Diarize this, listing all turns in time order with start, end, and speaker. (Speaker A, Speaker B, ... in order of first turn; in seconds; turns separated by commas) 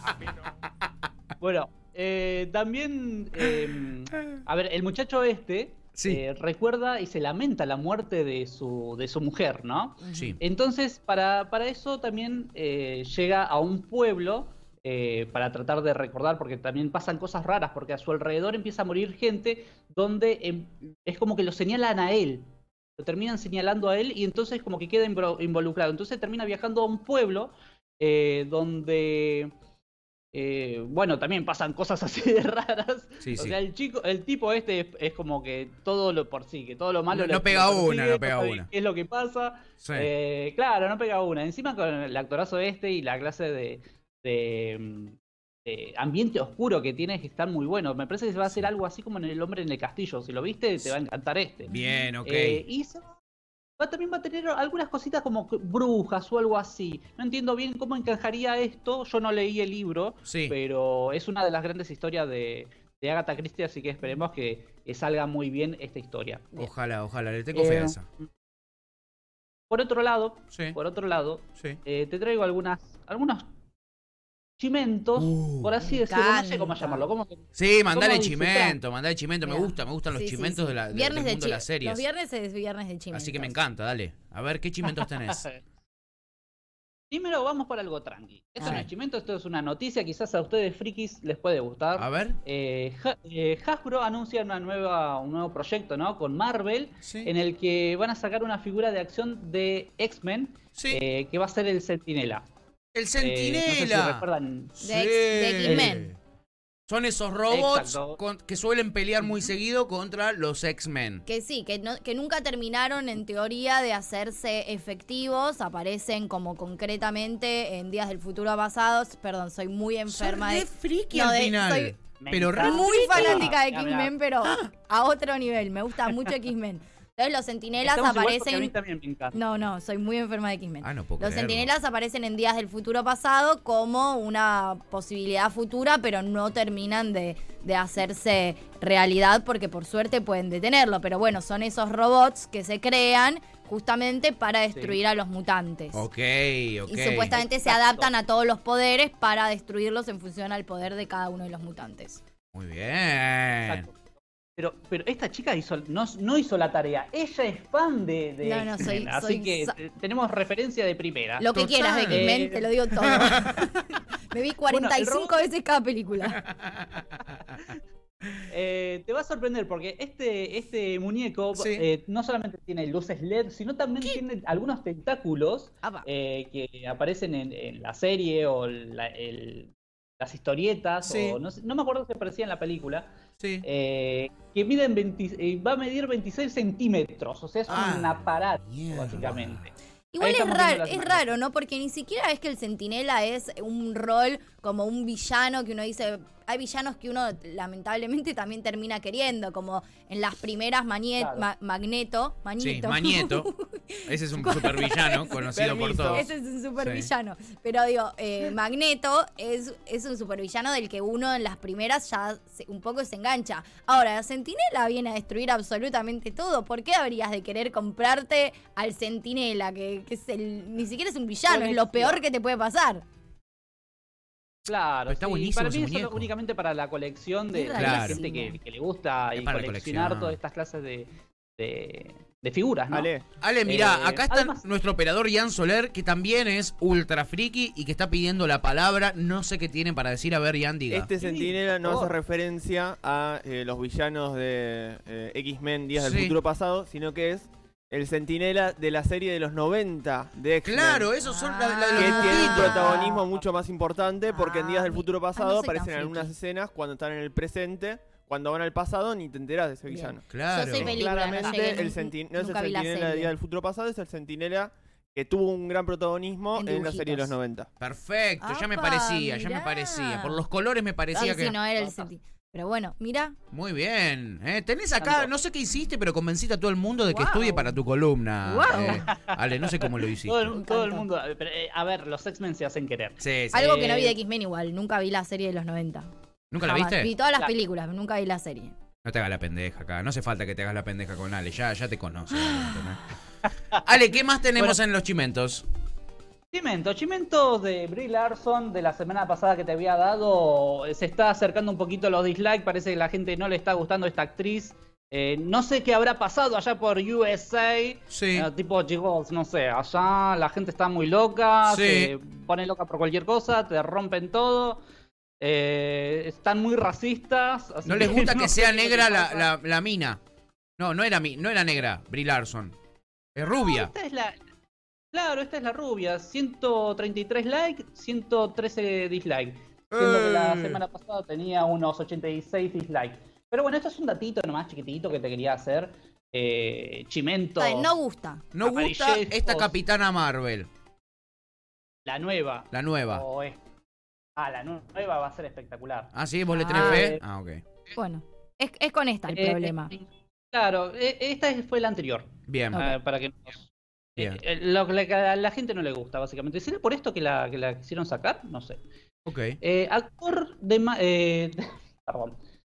Speaker A: 1.4-29.5, Speaker B: 6.0-6.2, Speaker C: 10.0-10.4, Speaker B: 10.1-10.4, Speaker A: 30.3-53.2, Speaker B: 33.2-33.6, Speaker B: 37.1-38.7, Speaker B: 39.8-40.1, Speaker B: 51.7-52.6, Speaker A: 53.8-66.7, Speaker B: 60.3-60.6, Speaker B: 66.6-68.1, Speaker A: 67.5-68.3, Speaker A: 69.7-73.4, Speaker B: 70.5-70.8, Speaker A: 74.6-78.8, Speaker B: 75.2-75.8, Speaker C: 75.8-77.1, Speaker B: 77.6-82.0, Speaker C: 79.5-83.6, Speaker B: 83.1-85.4, Speaker A: 84.8-85.6, Speaker A: 87.1-102.5, Speaker C: 88.6-88.9, Speaker B: 88.6-88.9, Speaker B: 92.0-92.4, Speaker B: 97.0-97.3, Speaker B: 100.8-101.0, Speaker B: 102.9-104.3, Speaker A: 103.2-104.8, Speaker B: 104.8-106.2, Speaker C: 104.8-106.2, Speaker A: 105.6-105.9, Speaker B: 106.9-111.2, Speaker A: 107.5-108.2, Speaker A: 109.2-109.5, Speaker C: 111.3-122.0, Speaker B: 120.1-123.5, Speaker A: 122.2-124.1, Speaker C: 122.6-128.7, Speaker B: 124.4-124.7, Speaker A: 127.8-129.4, Speaker C: 129.3-146.1, Speaker B: 130.8-131.7, Speaker B: 145.9-147.4, Speaker C: 146.9-152.2, Speaker A: 147.3-148.1, Speaker B: 152.5-153.8, Speaker A: 153.6-154.0, Speaker A: 154.6-161.5, Speaker C: 158.4-159.7, Speaker C: 161.4-166.4, Speaker B: 161.5-162.3, Speaker A: 162.1-162.7, Speaker B: 162.9-163.6, Speaker A: 164.7-165.5, Speaker B: 166.2-167.4, Speaker A: 168.5-183.1, Speaker B: 171.5-171.8, Speaker B: 181.0-181.4, Speaker B: 183.4-183.7, Speaker A: 183.6-191.3, Speaker B: 187.7-189.7, Speaker C: 190.1-205.4, Speaker A: 201.2-201.5, Speaker B: 202.6-203.5, Speaker B: 204.1-206.3, Speaker D: 205.4-206.3, Speaker C: 206.1-223.0, Speaker B: 206.8-207.1, Speaker A: 221.5-222.2, Speaker A: 224.7-233.1, Speaker B: 225.1-226.3, Speaker C: 227.5-228.6, Speaker B: 227.8-228.2, Speaker B: 229.4-230.4, Speaker D: 232.9-233.3, Speaker B: 233.4-241.1, Speaker A: 233.7-234.7, Speaker D: 240.9-251.2, Speaker A: 241.2-242.2, Speaker B: 246.0-246.3, Speaker B: 250.6-253.0, Speaker C: 251.2-253.2, Speaker D: 252.0-267.7, Speaker C: 254.3-256.3, Speaker C: 259.9-263.3, Speaker B: 260.3-261.0, Speaker C: 266.6-267.4, Speaker B: 267.8-271.6, Speaker C: 268.4-270.4, Speaker C: 271.1-273.4, Speaker A: 271.2-272.1, Speaker B: 273.5-280.6, Speaker A: 275.0-275.3, Speaker C: 277.1-277.8, Speaker C: 278.4-279.1, Speaker A: 278.8-284.1, Speaker C: 280.5-281.1, Speaker B: 283.2-283.8, Speaker C: 283.5-286.1, Speaker B: 286.5-287.1, Speaker A: 286.7-287.5, Speaker C: 286.7-288.8, Speaker B: 289.0-293.1, Speaker C: 292.4-292.8, Speaker B: 293.7-295.7, Speaker A: 296.5-314.8, Speaker B: 308.1-308.5, Speaker B: 311.6-312.1, Speaker A: 315.4-319.5, Speaker B: 317.8-320.2, Speaker B: 320.8-322.8, Speaker B: 323.4-323.9, Speaker A: 323.6-324.4, Speaker A: 325.1-337.9, Speaker B: 329.9-330.8, Speaker C: 337.6-338.5, Speaker B: 338.5-340.7, Speaker A: 338.6-339.8, Speaker A: 342.1-343.6, Speaker B: 342.7-343.2, Speaker A: 344.4-346.1, Speaker B: 346.1-347.6, Speaker C: 346.5-347.1, Speaker A: 346.8-347.2, Speaker C: 347.9-349.9, Speaker A: 349.3-358.8, Speaker B: 352.5-352.9, Speaker C: 352.7-353.0, Speaker B: 359.3-359.6, Speaker A: 359.6-362.4